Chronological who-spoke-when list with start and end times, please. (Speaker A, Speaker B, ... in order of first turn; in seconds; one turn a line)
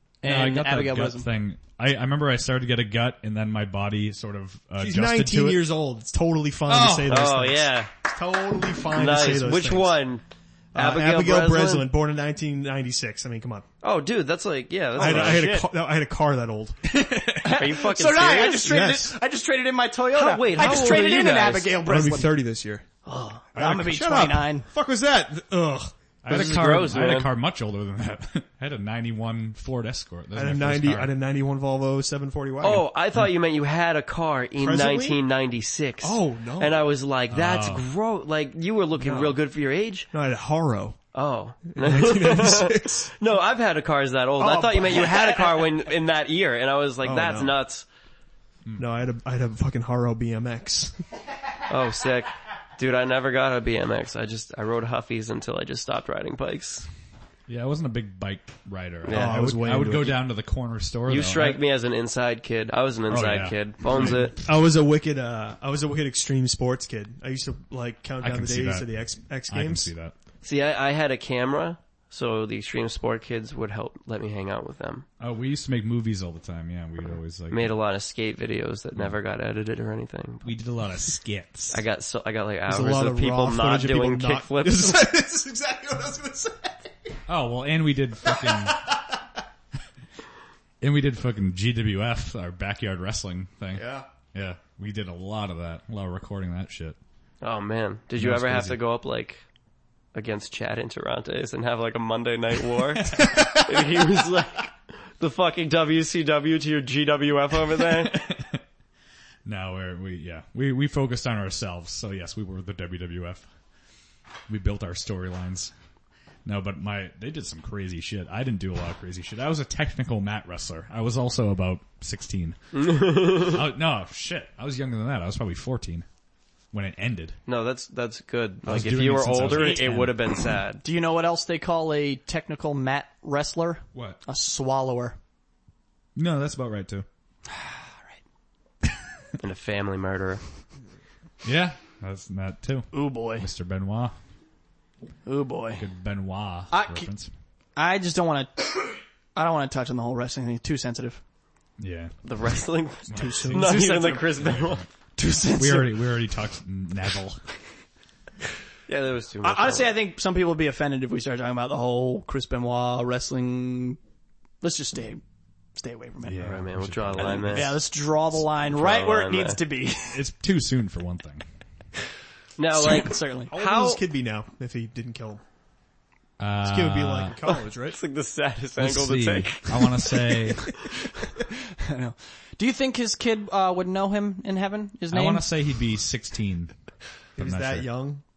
Speaker A: 0.2-1.3
Speaker B: 0.2-5.6
Speaker C: 4.8-10.0
Speaker B: 6.7-7.2
Speaker D: 7.1-7.9
Speaker D: 8.9-10.2
Speaker C: 10.7-13.7
Speaker D: 10.7-11.9
Speaker D: 13.8-15.5
Speaker C: 14.9-16.8
Speaker A: 15.0-15.7
Speaker B: 16.9-17.6
Speaker A: 17.4-22.3
Speaker D: 17.4-18.7
Speaker C: 18.6-19.1
Speaker D: 20.1-21.8
Speaker C: 21.8-22.9
Speaker D: 23.1-23.4
Speaker A: 23.5-24.6
Speaker C: 23.5-26.8
Speaker B: 26.2-31.1
Speaker D: 26.3-27.3
Speaker C: 30.3-32.9
Speaker D: 32.6-40.1
Speaker C: 34.6-35.2
Speaker C: 36.0-36.8
Speaker B: 37.3-37.9
Speaker C: 39.0-39.4
Speaker C: 40.1-41.0
Speaker D: 41.1-47.9
Speaker C: 41.7-43.1
Speaker A: 44.4-45.7
Speaker C: 47.0-47.5
Speaker C: 48.8-51.0
Speaker D: 51.7-56.9
Speaker B: 57.5-61.6
Speaker D: 59.0-59.4
Speaker C: 59.1-60.2
Speaker D: 61.1-64.4
Speaker B: 63.1-64.3
Speaker C: 64.0-69.9
Speaker B: 68.2-68.9
Speaker B: 69.5-70.1
Speaker D: 70.4-75.0
Speaker B: 75.2-77.7
Speaker D: 77.5-80.5
Speaker B: 80.4-81.8
Speaker D: 81.7-85.0
Speaker C: 82.7-87.2
Speaker B: 87.3-88.8
Speaker C: 88.2-89.2
Speaker B: 90.8-97.0
Speaker C: 93.7-94.0
Speaker D: 97.4-99.4
Speaker B: 98.2-98.8
Speaker D: 100.1-108.2
Speaker B: 108.0-108.6
Speaker B: 109.4-113.4
Speaker B: 114.5-115.7
Speaker B: 116.4-122.6
Speaker D: 122.7-123.6
Speaker B: 123.1-126.0
Speaker B: 126.7-127.4
Speaker D: 127.5-130.8
Speaker B: 128.6-130.2
Speaker A: 129.5-130.0
Speaker A: 130.8-135.2
Speaker B: 133.9-134.2
Speaker B: 136.1-137.1
Speaker A: 137.5-137.9
Speaker D: 139.4-140.4
Speaker B: 141.4-144.1
Speaker A: 142.9-143.4
Speaker A: 145.2-145.8
Speaker B: 145.8-147.3
Speaker A: 146.7-147.1
Speaker A: 147.8-151.2
Speaker B: 151.8-152.1
Speaker D: 152.2-154.8
Speaker B: 153.1-154.9
Speaker C: 153.1-154.2
Speaker A: 153.7-154.1
Speaker A: 155.2-156.0
Speaker B: 155.5-157.4
Speaker D: 158.9-159.9
Speaker A: 159.4-164.0
Speaker A: 164.6-165.2
Speaker A: 165.8-166.5
Speaker B: 166.2-167.8
Speaker D: 166.4-167.8
Speaker A: 167.2-170.2
Speaker D: 168.7-169.6
Speaker B: 170.1-171.4
Speaker D: 172.6-174.0
Speaker A: 172.7-173.5
Speaker C: 173.5-175.4
Speaker B: 176.4-177.3
Speaker C: 176.6-178.0
Speaker D: 177.9-180.1
Speaker B: 178.8-180.7
Speaker A: 181.7-185.5
Speaker B: 185.1-186.7
Speaker B: 187.4-187.9
Speaker C: 187.4-188.2